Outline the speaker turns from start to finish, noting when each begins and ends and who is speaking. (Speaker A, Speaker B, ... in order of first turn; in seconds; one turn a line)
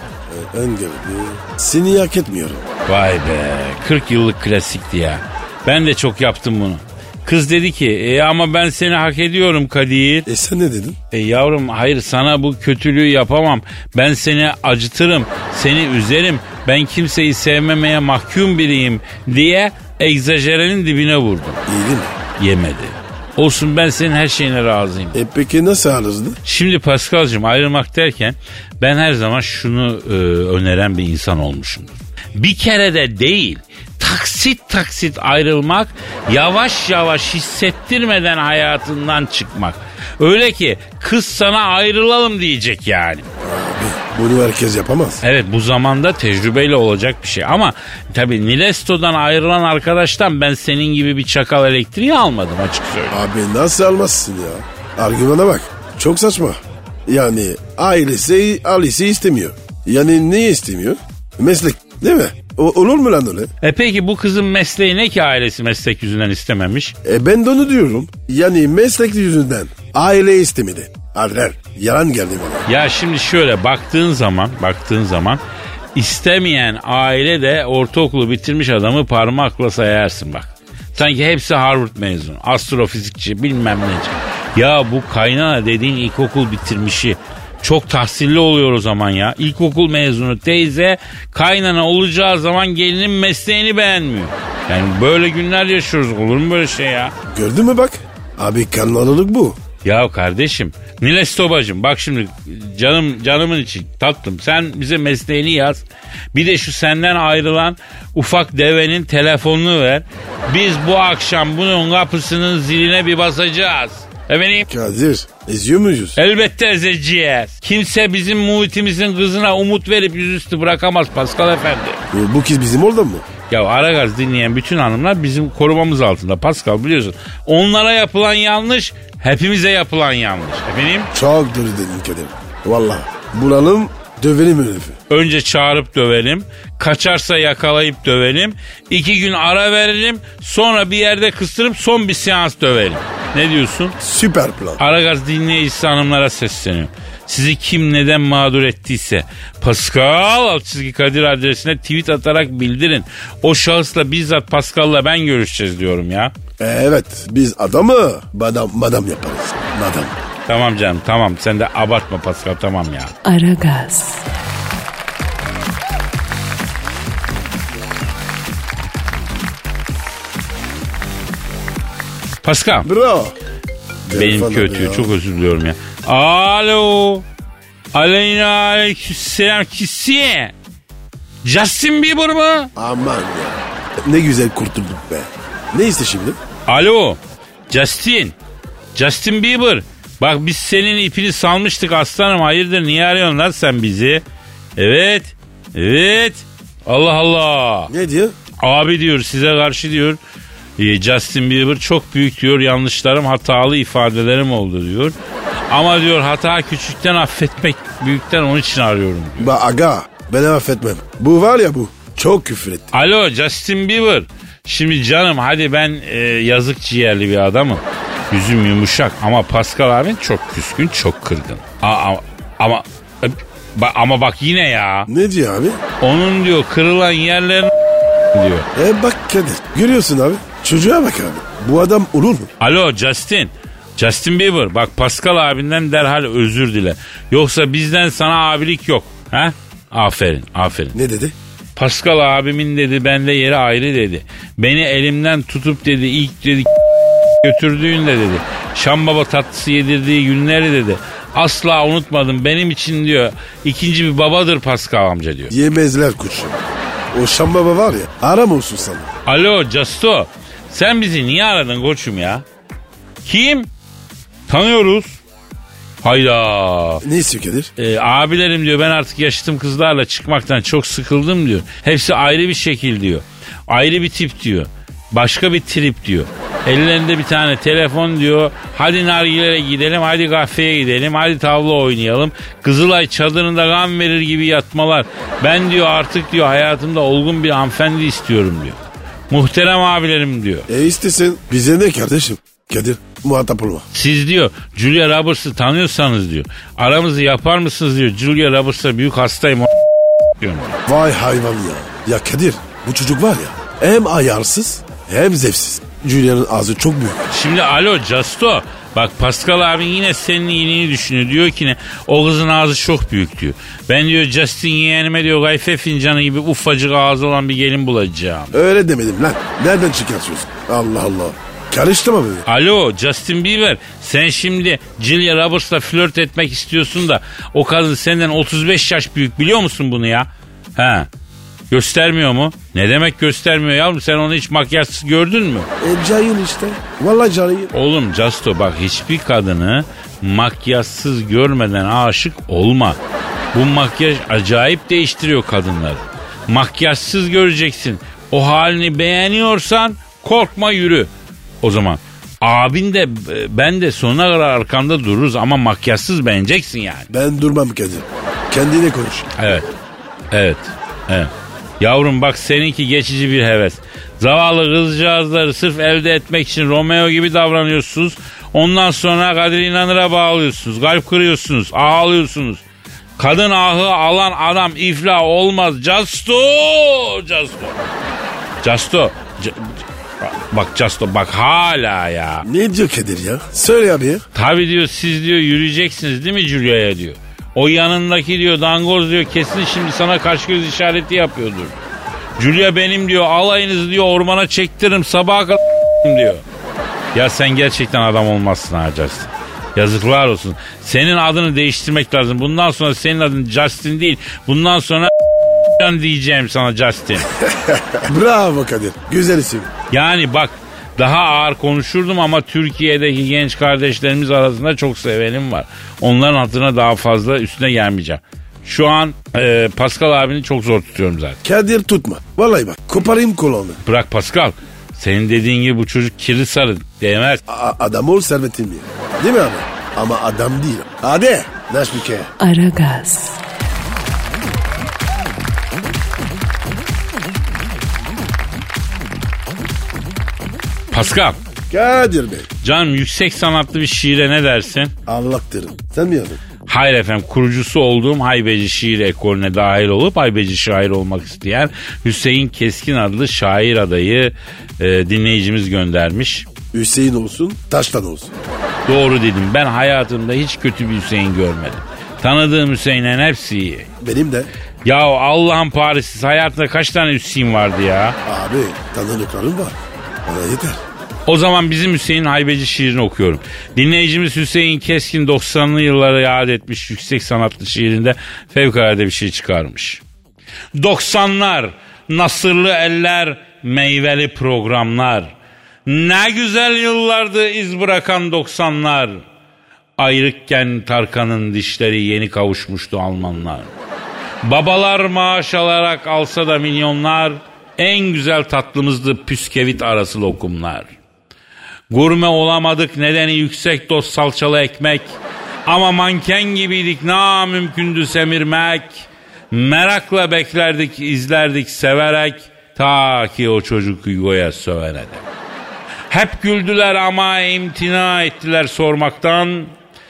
Speaker A: 0.3-2.6
Speaker B: 2.9-10.3
Speaker A: 10.2-11.0
Speaker B: 11.1-21.6
Speaker A: 21.7-22.1
Speaker B: 22.4-25.2
Speaker A: 25.1-26.4
Speaker B: 26.4-43.2
Speaker A: 43.4-45.2
Speaker B: 45.2-53.2
Speaker A: 53.1-63.5
Speaker B: 63.6-66.9
Speaker A: 67.0-72.7
Speaker B: 72.7-75.4
Speaker B: 75.9-97.1
Speaker A: 97.3-99.6
Speaker B: 99.8-114.7
Speaker A: 114.7-116.2
Speaker B: 116.2-122.0
Speaker A: 122.1-123.2
Speaker B: 123.5-131.1
Speaker A: 131.1-135.0
Speaker B: 135.1-143.9
Speaker A: 144.0-144.8
Speaker B: 144.8-156.3
Speaker A: 156.6-160.1
Speaker B: 160.5-163.1
Speaker C: 163.2-164.2
Speaker B: 172.4-172.9
Speaker A: 172.8-173.3
Speaker A: 174.1-175.1
Speaker B: 174.1-177.2
Speaker B: 177.9-180.5
Speaker B: 181.4-182.7
Speaker A: 182.7-186.4
Speaker B: 186.7-188.3
Speaker B: 188.9-194.2
Speaker B: 194.8-197.9
Speaker A: 197.9-198.3
Speaker B: 198.6-200.2
Speaker B: 200.8-205.1
Speaker B: 205.7-209.5
Speaker A: 209.4-212.9
Speaker B: 212.9-225.1
Speaker A: 225.1-225.8
Speaker B: 226.0-227.7
Speaker B: 228.3-228.7
Speaker A: 228.7-232.5
Speaker B: 232.6-241.0
Speaker A: 240.9-241.3
Speaker B: 241.8-246.7
Speaker B: 247.4-255.5
Speaker A: 255.5-259.1
Speaker B: 259.2-262.4
Speaker B: 263.2-263.7
Speaker B: 264.5-265.2
Speaker B: 266.0-267.0
Speaker A: 267.0-267.7
Speaker B: 267.8-290.7
Speaker A: 290.7-293.9
Speaker B: 293.9-299.7
Speaker B: 300.4-300.8
Speaker A: 300.9-307.3
Speaker B: 307.3-318.5
Speaker A: 318.5-322.4
Speaker B: 322.4-331.1
Speaker B: 331.7-335.7
Speaker A: 335.8-337.7
Speaker B: 337.7-343.0
Speaker B: 343.5-351.1
Speaker B: 351.6-357.1
Speaker A: 357.1-359.3
Speaker B: 359.4-359.7
Speaker B: 360.3-372.6
Speaker B: 373.2-377.8
Speaker B: 378.6-382.5
Speaker A: 382.4-384.2
Speaker B: 384.3-391.8
Speaker B: 392.4-396.4
Speaker B: 397.1-405.1
Speaker B: 405.8-407.3
Speaker A: 407.4-409.7
Speaker B: 409.9-421.4
Speaker A: 421.4-423.8
Speaker B: 423.8-427.4
Speaker A: 427.5-432.3
Speaker C: 432.4-433.4
Speaker B: 440.9-441.4
Speaker A: 441.7-442.5
Speaker B: 442.6-444.9
Speaker A: 445.1-446.4
Speaker B: 446.6-456.5
Speaker A: 456.7-458.3
Speaker B: 458.9-463.9
Speaker A: 464.0-464.5
Speaker B: 464.8-468.2
Speaker A: 468.2-470.8
Speaker B: 471.3-480.0
Speaker B: 480.7-485.3
Speaker B: 485.9-489.2
Speaker B: 490.0-493.7
Speaker B: 494.4-500.9
Speaker B: 501.9-515.2
Speaker B: 516.1-519.7